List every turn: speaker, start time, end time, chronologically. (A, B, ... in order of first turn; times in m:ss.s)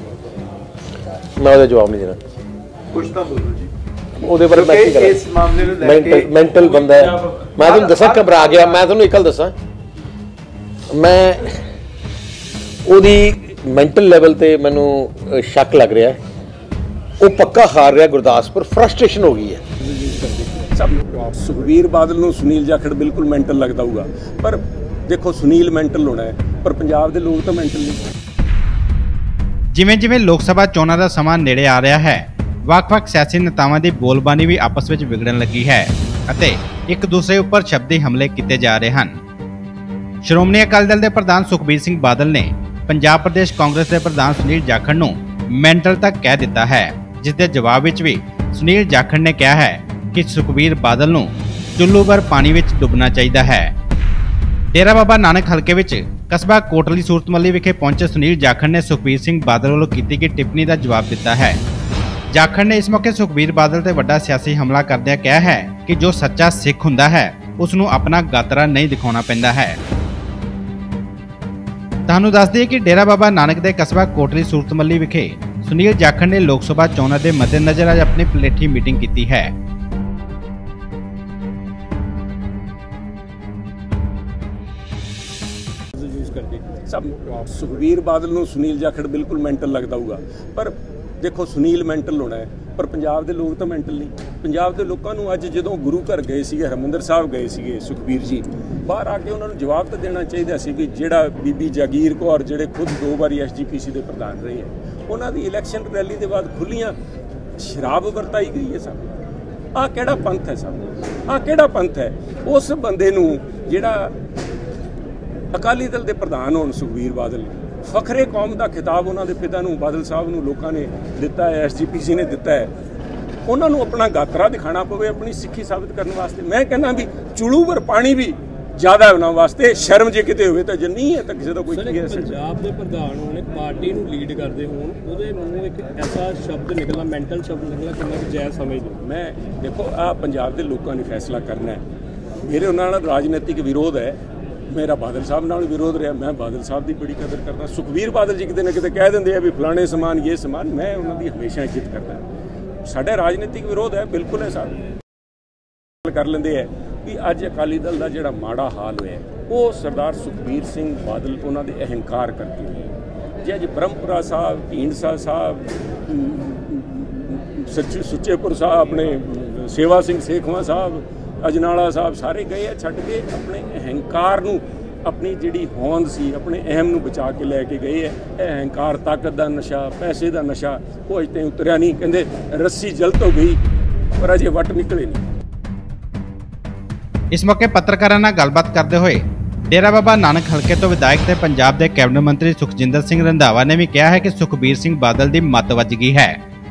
0:01.4-0:02.2 A
0:02.9-0:03.7 B
0:04.2-0:09.5 A
0:04.6-0:06.3 B
0:07.7-0:08.3 B
0:10.9-0:11.6 A
0:12.9-0:16.2 A
0:17.2-0:19.6 A
0:19.8-0:28.0 C
0:29.7-0:39.2 D
0:40.2-0:53.7 D
0:54.7-1:01.6 D
1:02.3-1:09.8 D
1:12.1-1:19.5 D
1:26.0-1:26.7 E
1:26.9-1:47.0 C
1:47.6-1:49.1 C
1:49.8-1:54.1 C
1:55.5-2:02.7 C
2:03.5-2:12.4 C
2:11.7-2:19.0 E
2:19.0-2:21.8 C
2:22.4-2:24.2 C
2:24.7-2:32.2 C
2:32.8-2:34.8 C
2:36.0-2:42.8 C
2:43.4-3:03.6 C
3:04.2-3:05.2 C
3:07.3-3:16.4 D